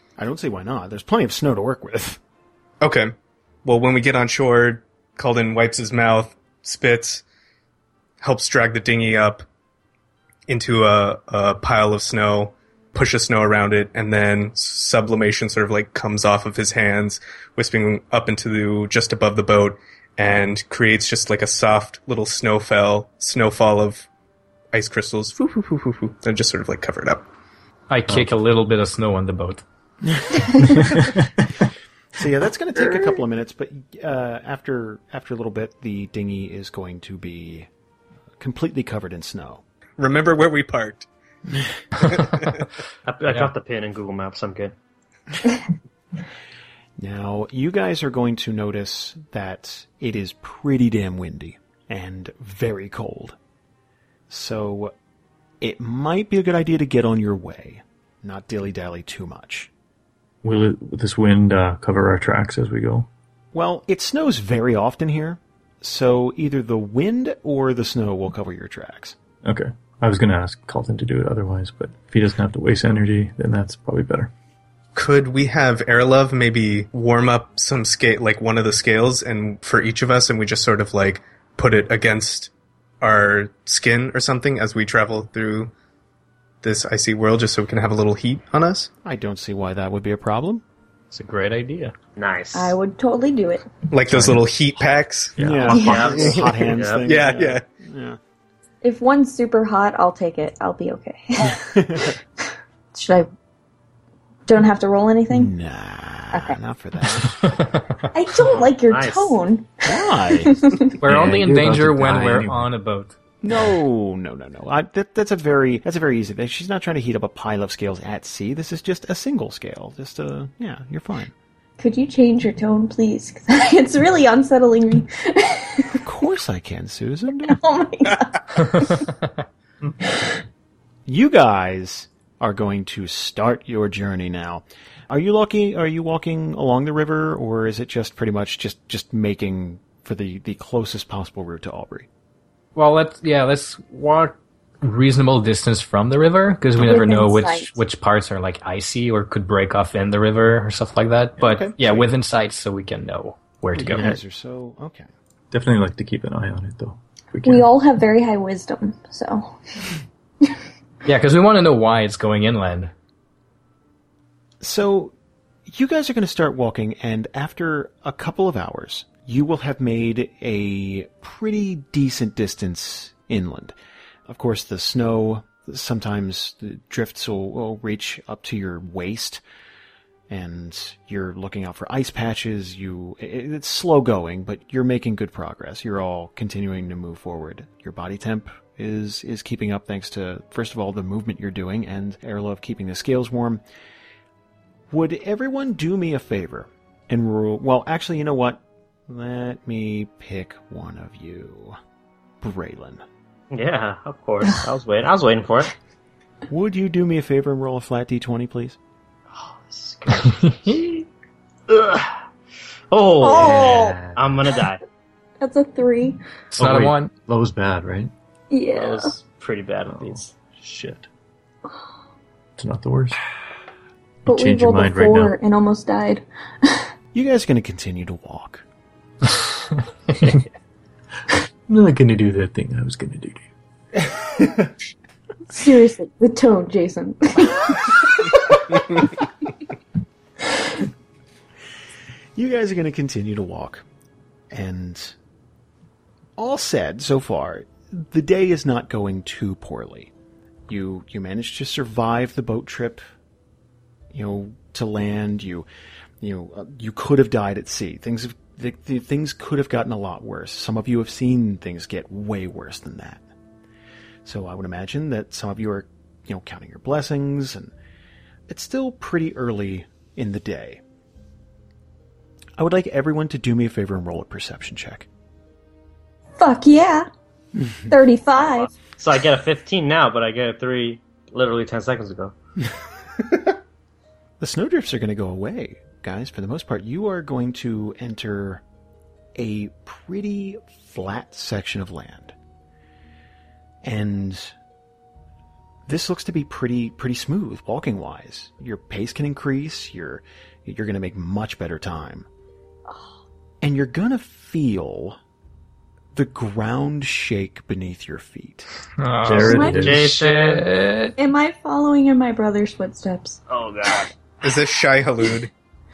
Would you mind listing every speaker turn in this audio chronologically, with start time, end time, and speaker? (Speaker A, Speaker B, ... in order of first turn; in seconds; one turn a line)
Speaker A: 0.2-2.2
Speaker B: 2.8-3.1
Speaker B: 3.6-7.2
Speaker B: 8.2-9.4
Speaker B: 10.5-24.1
Speaker B: 24.7-27.2
Speaker C: 27.9-29.6
Speaker A: 30.1-30.5
Speaker D: 30.6-31.2
Speaker A: 32.1-37.7
Speaker A: 38.4-39.6
Speaker B: 40.0-41.1
Speaker B: 42.0-42.7
Speaker E: 43.0-44.7
Speaker A: 47.0-53.4
Speaker A: 54.3-54.9
Speaker A: 55.6-59.7
Speaker D: 60.4-63.1
Speaker A: 63.5-69.2
Speaker D: 69.4-74.3
Speaker B: 74.9-85.7
Speaker B: 86.6-88.9
Speaker A: 89.0-90.6
Speaker C: 91.1-91.9
Speaker E: 92.2-92.8
Speaker F: 92.5-93.8
Speaker B: 93.9-95.4
Speaker D: 94.1-94.4
Speaker D: 95.3-96.0
Speaker A: 95.4-98.2
Speaker E: 95.7-97.4
Speaker F: 95.7-96.3
Speaker B: 97.0-97.6
Speaker F: 98.8-102.2
Speaker A: 101.5-102.1
Speaker F: 102.9-103.3
Speaker F: 104.5-105.5
Speaker A: 105.3-107.4
Speaker C: 107.4-107.9
Speaker F: 108.1-109.7
Speaker E: 108.4-109.4
Speaker A: 109.8-110.6
Speaker F: 110.3-111.0
Speaker C: 111.0-113.2
Speaker D: 111.0-112.7
Speaker A: 113.4-121.3
Speaker F: 121.8-126.0
Speaker A: 126.0-127.6
Speaker F: 127.4-129.1
Speaker C: 128.7-129.1
Speaker F: 130.0-130.4
Speaker A: 131.1-142.1
Speaker C: 142.7-154.1
Speaker F: 146.8-147.7
Speaker A: 151.4-152.1
Speaker A: 153.7-155.1
Speaker D: 153.9-154.2
Speaker D: 155.5-157.7
Speaker F: 157.4-159.5
Speaker C: 161.0-162.9
Speaker A: 164.6-165.1
Speaker A: 165.7-173.8
Speaker A: 174.3-179.4
Speaker A: 180.3-193.6
Speaker A: 194.9-201.8
Speaker A: 202.4-203.0
Speaker E: 203.5-205.7
Speaker A: 206.5-208.8
Speaker E: 209.3-210.8
Speaker C: 210.2-211.0
Speaker E: 211.7-212.2
Speaker E: 212.9-214.8
Speaker F: 213.2-214.0
Speaker D: 213.3-214.2
Speaker F: 215.4-216.2
Speaker C: 216.5-217.1
Speaker D: 216.6-218.1
Speaker F: 218.5-219.1
Speaker E: 218.7-220.3
Speaker D: 219.9-221.1
Speaker D: 222.6-223.2
Speaker D: 224.2-225.3
Speaker F: 224.2-226.9
Speaker A: 227.1-228.6
Speaker D: 231.7-233.4
Speaker A: 234.0-234.7
Speaker F: 235.5-239.1
Speaker A: 242.3-243.8
Speaker A: 244.5-245.1
Speaker A: 246.4-250.1
Speaker A: 250.7-253.0
Speaker A: 254.1-255.7
Speaker A: 256.2-263.2
Speaker A: 264.2-267.7
Speaker A: 268.5-270.8
Speaker A: 272.6-275.1
Speaker F: 276.4-277.1
Speaker A: 277.6-277.9
Speaker F: 277.9-278.7
Speaker E: 278.4-282.3
Speaker A: 284.4-288.6
Speaker A: 289.3-292.3
Speaker A: 293.8-294.5
Speaker A: 295.9-302.3
Speaker A: 303.6-305.2
Speaker A: 306.1-308.7
Speaker C: 309.0-311.1
Speaker D: 309.2-310.1
Speaker F: 309.4-309.9
Speaker E: 309.4-310.7
Speaker F: 311.2-313.4
Speaker E: 313.5-314.1
Speaker B: 314.4-315.5